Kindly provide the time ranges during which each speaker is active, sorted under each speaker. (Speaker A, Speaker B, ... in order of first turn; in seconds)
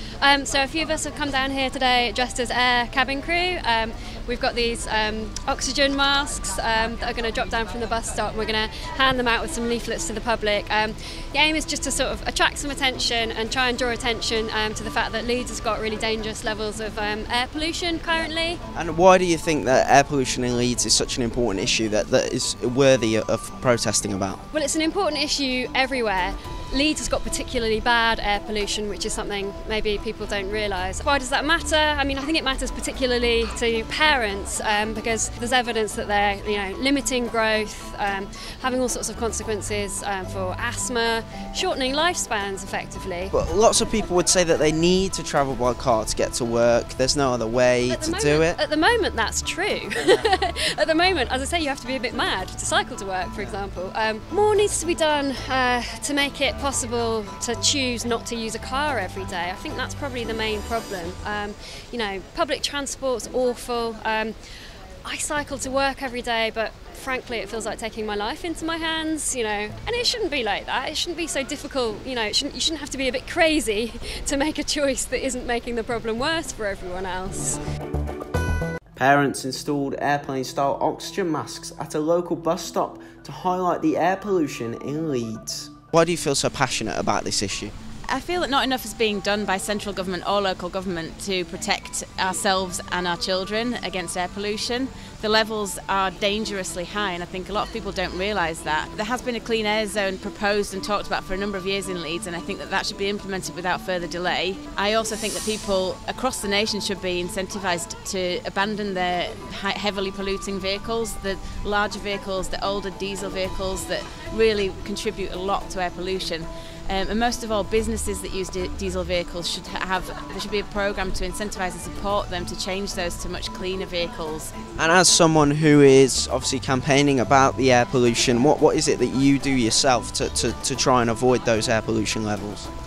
Speaker A: 0.2-18.6, 24.5-43.3, 47.9-64.4, 65.0-77.6
Speaker B: 18.8-24.4, 43.3-48.6, 79.0-87.7, 124.8-132.7
Speaker C: 88.1-124.5